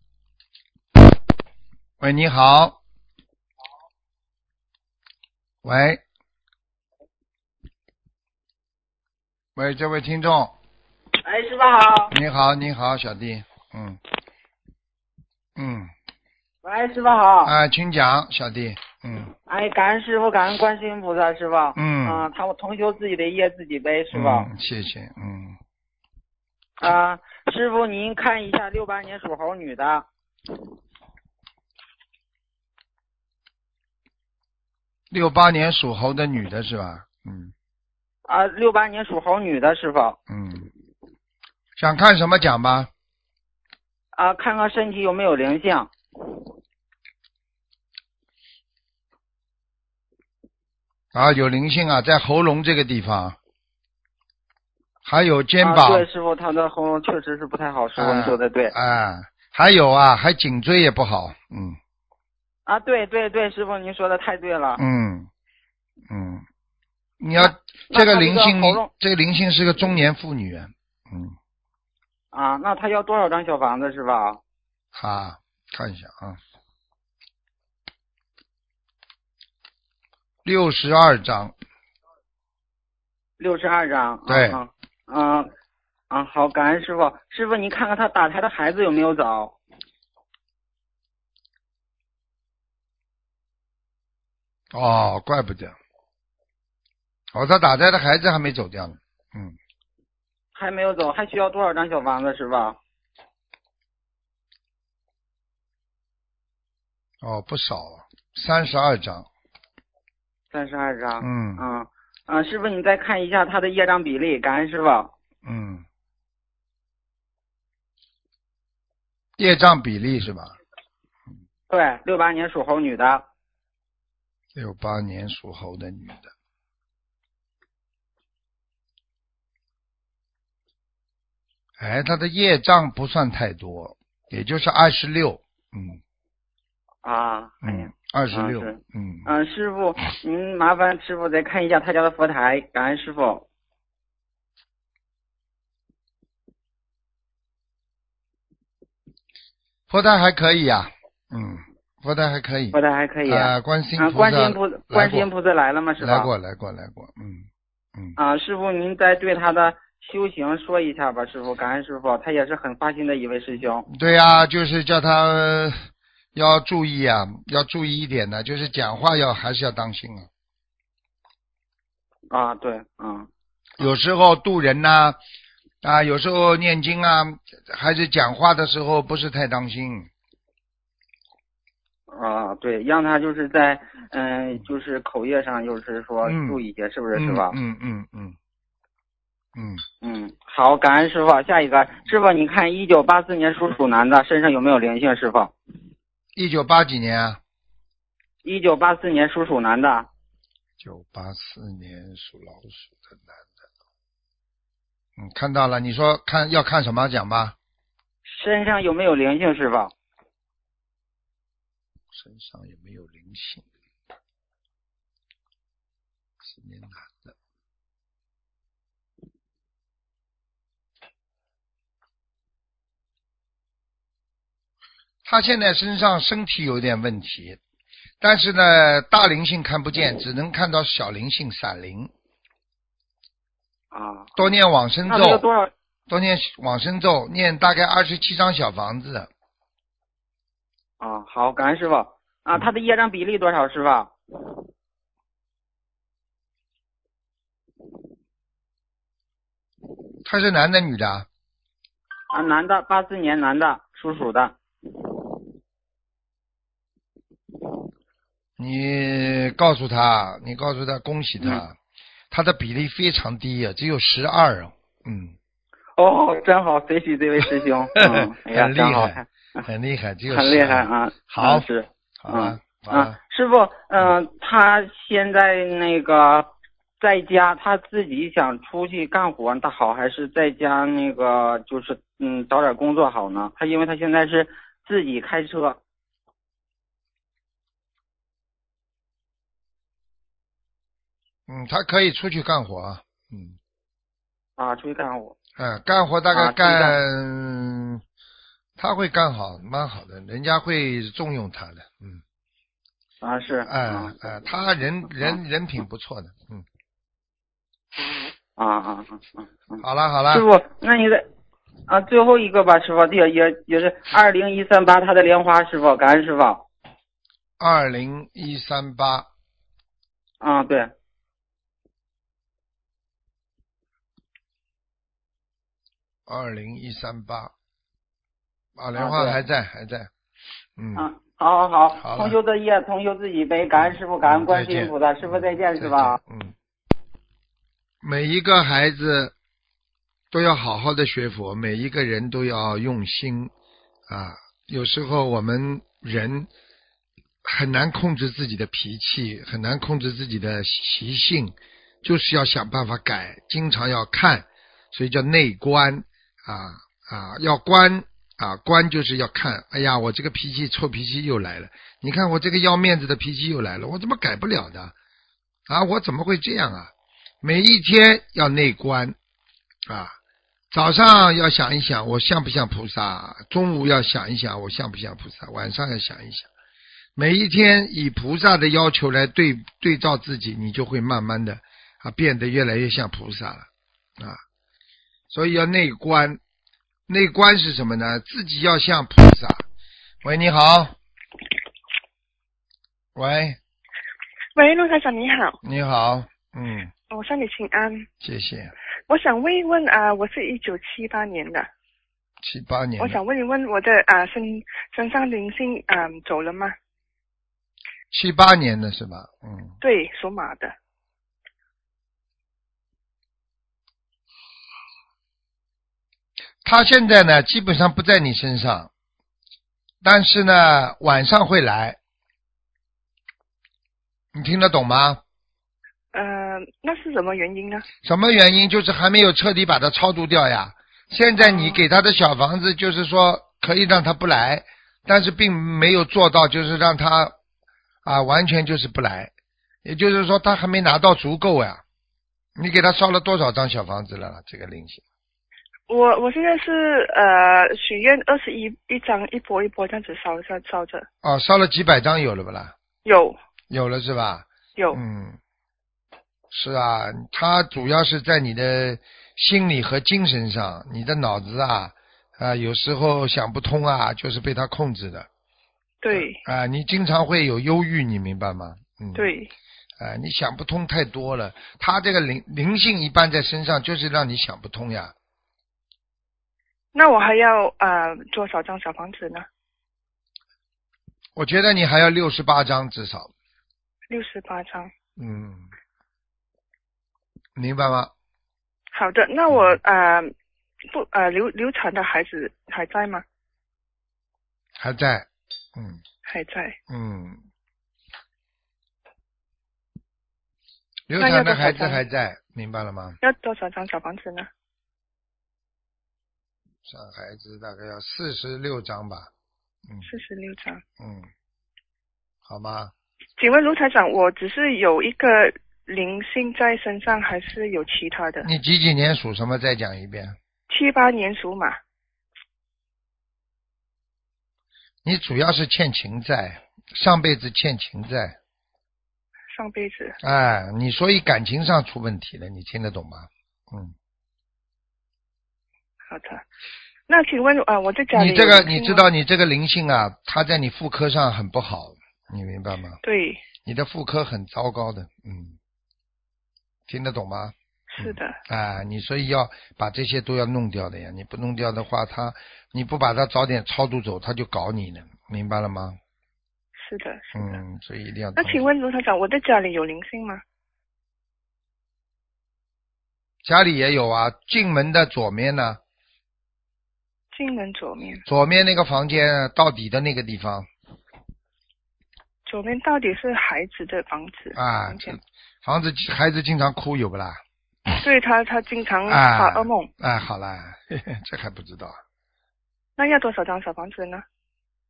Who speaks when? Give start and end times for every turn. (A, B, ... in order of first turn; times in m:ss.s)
0:02.0-0:02.8 A
0:05.6-0:06.0 A
0:09.6-0:10.5 A
0:11.2-0:12.2 B
0:12.1-0:14.0 A
0:15.6-0:15.9 A
0:16.6-0:17.5 B
0:17.4-0:19.3 A
0:19.5-0:24.5 B
0:21.8-0:22.3 A
0:24.1-0:25.6 A
0:26.8-0:30.0 B
0:35.1-0:37.5 A
0:38.3-0:40.2 B
0:40.3-0:40.7 A
0:41.8-0:42.9 A
0:44.2-0:45.9 B
0:51.1-0:53.4 A
0:55.0-0:56.1 A
0:55.6-0:58.7 B
0:58.0-1:01.8 A
1:02.7-1:04.8 B
1:04.8-1:05.3 A
1:06.1-1:06.4 A
1:07.2-1:11.3 A
1:07.4-1:08.9 B
1:12.3-1:14.4 B
1:14.9-1:16.4 A
1:20.4-1:21.5 A
1:23.4-1:25.5 B
1:24.3-1:24.6 A
1:26.1-1:29.6 B
1:34.7-1:35.8 A
1:37.3-1:39.6 A
1:40.6-1:42.8 B
1:47.2-1:49.3 A
1:50.5-1:55.1 B
1:51.2-1:51.6 A
1:55.4-1:55.8 A
1:59.4-2:00.5 A
2:01.7-2:03.2 B
2:04.6-2:06.3 A
2:11.8-2:16.0 A
2:17.0-2:23.4 B
2:17.6-2:19.3 A
2:29.9-2:35.3 A
2:32.7-2:36.3 B
2:36.0-2:38.2 A
2:38.2-2:43.9 B
2:43.9-2:45.8 A
2:46.4-2:50.3 A
2:52.3-2:53.3 B
2:53.8-2:55.2 A
2:55.8-3:00.1 A
3:02.1-3:07.6 B
3:06.2-3:06.6 A
3:07.1-3:08.4 A
3:09.6-3:09.8 A
3:10.0-3:15.5 B
3:16.4-3:17.4 A
3:18.4-3:20.1 B
3:20.8-3:23.5 A
3:25.2-3:27.6 A
3:28.2-3:29.9 B
3:32.1-3:33.7 A
3:36.4-3:37.4 A
3:45.2-3:47.6 A
3:48.2-3:52.1 A
3:53.9-3:54.4 B
3:54.4-3:55.4 A
3:55.1-3:55.7 B
3:56.1-3:59.3 A
4:01.0-4:04.5 B
4:10.2-4:11.3 A
4:12.3-4:14.6 B
4:18.6-4:21.8 A
4:22.3-4:25.4 A
4:26.0-4:29.7 B
4:28.0-4:31.6 A
4:30.3-4:45.8 B
4:32.2-4:33.2 A
4:51.5-4:53.6 A
4:54.6-4:55.4 B
4:55.6-4:58.0 A
4:56.3-4:57.0 B
4:58.8-5:02.2 A
5:03.2-5:04.3 B
5:03.7-5:06.6 A
5:08.6-5:11.3 B
5:09.8-5:10.5 A
5:11.9-5:16.7 B
5:17.6-5:19.3 A
5:20.4-5:20.9 B
5:26.3-5:27.5 A
5:28.8-5:30.1 A
5:29.0-5:29.4 B
5:30.8-5:31.1 A
5:31.0-5:36.2 B
5:32.0-5:32.4 A
5:33.8-5:36.6 A
5:38.0-5:39.3 A
5:40.3-5:43.5 A
5:44.1-5:46.5 A
5:47.4-6:04.9 A
6:05.7-6:09.2 A
6:09.9-6:10.2 A
6:10.7-6:16.5 A
6:17.2-6:24.4 A
6:25.3-6:26.4 A
6:27.1-6:29.6 A
6:30.2-6:30.9 A
6:33.2-6:33.6 A
6:34.6-6:35.6 C
6:35.6-6:36.9 A
6:37.1-6:38.1 C
6:38.2-6:38.7 A
6:39.1-6:41.7 C
6:42.4-6:43.2 A
6:43.0-6:46.8 C
6:48.1-6:49.7 A
6:49.8-6:50.7 C
6:56.6-6:58.9 A
7:00.0-7:02.0 A
7:04.3-7:05.2 A
7:06.1-7:07.9 C
7:08.0-7:17.4 A
7:11.4-7:11.8 C
7:18.0-7:19.3 A
7:19.8-7:21.8 A
7:22.6-7:25.0 A
7:25.9-7:31.1 C
7:31.2-7:32.8 A
7:33.0-7:33.4 C
7:33.7-7:35.4 A
7:36.5-7:45.3 A
7:46.0-7:46.4 C
7:46.1-7:49.3 A
7:49.2-7:49.5 C
7:50.0-7:55.1 A
7:56.9-7:59.5 C
8:01.4-8:03.3 A
8:04.1-8:04.9 C
8:05.2-8:05.7 A
8:07.6-8:08.1 A
8:08.9-8:10.3 C
8:09.5-8:09.8 A
8:10.9-8:13.2 C
8:14.8-8:16.0 A
8:16.3-8:16.8 C
8:16.9-8:17.4 A
8:21.1-8:23.2 A
8:21.2-8:22.0 C
8:23.2-8:24.5 C
8:26.9-8:29.3 A
8:30.0-8:30.8 C
8:31.0-8:31.3 A
8:32.5-8:32.9 A
8:33.4-8:38.5 C
8:38.4-8:40.4 A
8:40.7-8:41.8 C
8:45.0-8:48.4 A
8:49.5-8:50.2 C
8:50.2-8:53.9 A
8:56.1-8:56.4 C
8:57.1-8:59.0 C
8:58.1-9:03.0 A
9:03.0-9:03.4 C
9:03.6-9:05.6 A
9:06.9-9:16.0 A
9:07.9-9:08.4 C
9:16.8-9:17.6 C
9:17.4-9:18.7 A
9:18.4-9:20.4 C
9:23.4-9:25.8 A
9:27.3-9:28.2 C
9:28.3-9:30.7 A
9:32.5-9:35.2 C
9:34.6-9:38.0 A
9:38.0-9:39.9 C
9:39.1-9:42.0 A
9:43.0-9:44.2 C